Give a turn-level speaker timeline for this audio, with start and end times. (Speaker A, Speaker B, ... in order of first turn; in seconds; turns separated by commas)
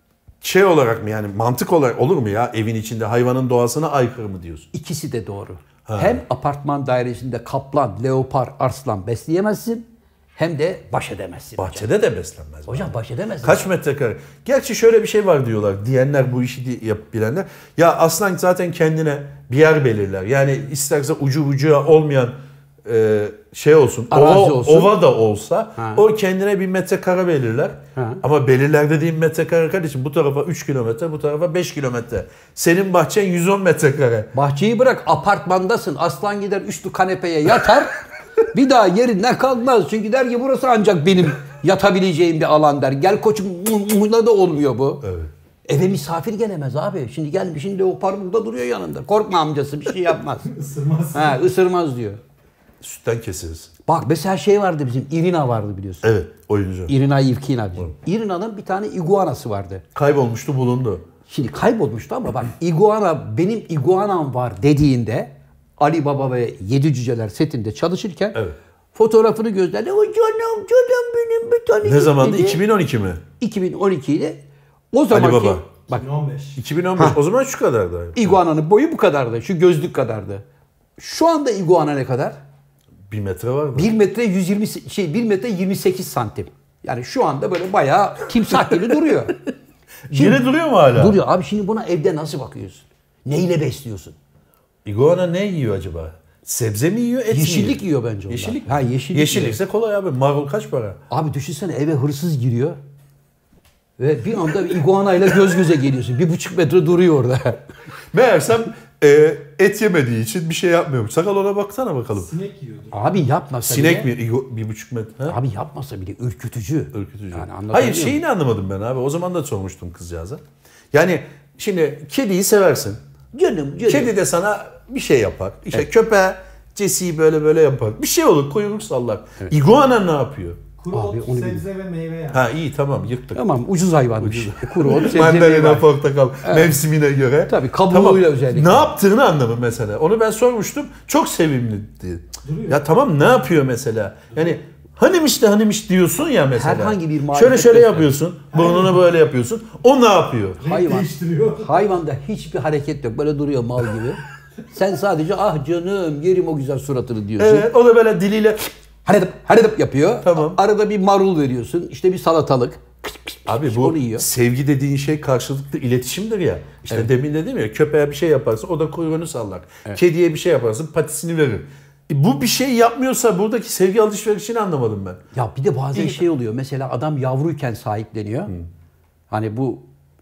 Speaker A: 0.4-4.7, Speaker B: 4.7-11.9, Speaker A: 5.9-6.2, Speaker A: 11.6-34.3, Speaker B: 12.7-13.7, Speaker B: 24.1-24.9, Speaker B: 25.8-26.0, Speaker B: 28.0-28.2, Speaker B: 34.3-37.9, Speaker B: 38.5-45.0, Speaker A: 45.0-45.3, Speaker B: 45.7-50.5, Speaker C: 50.5-51.4, Speaker B: 51.1-52.2, Speaker A: 52.8-53.7, Speaker B: 53.9-56.1, Speaker A: 56.0-56.9, Speaker B: 56.9-59.8, Speaker A: 60.0-61.0, Speaker B: 61.3-68.4, Speaker B: 69.0-72.6, Speaker A: 71.8-73.2, Speaker B: 73.4-74.4, Speaker B: 74.9-76.0, Speaker A: 75.1-75.7, Speaker C: 75.9-76.6, Speaker A: 76.6-78.4, Speaker B: 78.2-80.4, Speaker B: 81.0-82.4, Speaker A: 83.1-83.9, Speaker B: 83.8-89.4, Speaker A: 90.1-91.2, Speaker B: 90.1-90.4, Speaker B: 90.9-94.2, Speaker A: 94.8-101.0, Speaker B: 97.3-99.6, Speaker B: 101.1-102.8, Speaker B: 104.0-107.6, Speaker A: 108.1-112.3, Speaker C: 112.2-113.2, Speaker B: 112.9-114.1, Speaker A: 113.6-115.4, Speaker B: 115.3-118.2, Speaker A: 116.9-120.4, Speaker A: 120.9-123.0, Speaker B: 123.3-124.1, Speaker A: 123.9-130.6, Speaker C: 130.8-132.4, Speaker B: 130.9-131.6, Speaker A: 132.3-133.5, Speaker B: 133.3-135.9, Speaker A: 134.2-150.6, Speaker B: 136.4-136.8, Speaker B: 137.5-138.9, Speaker C: 142.4-142.8, Speaker B: 146.6-148.1, Speaker C: 148.5-149.0, Speaker C: 150.6-152.0, Speaker B: 150.6-157.7, Speaker A: 157.4-158.6, Speaker B: 159.1-164.3, Speaker A: 160.2-160.6, Speaker A: 163.5-175.2, Speaker B: 175.3-178.5, Speaker A: 175.9-176.2, Speaker B: 179.3-179.8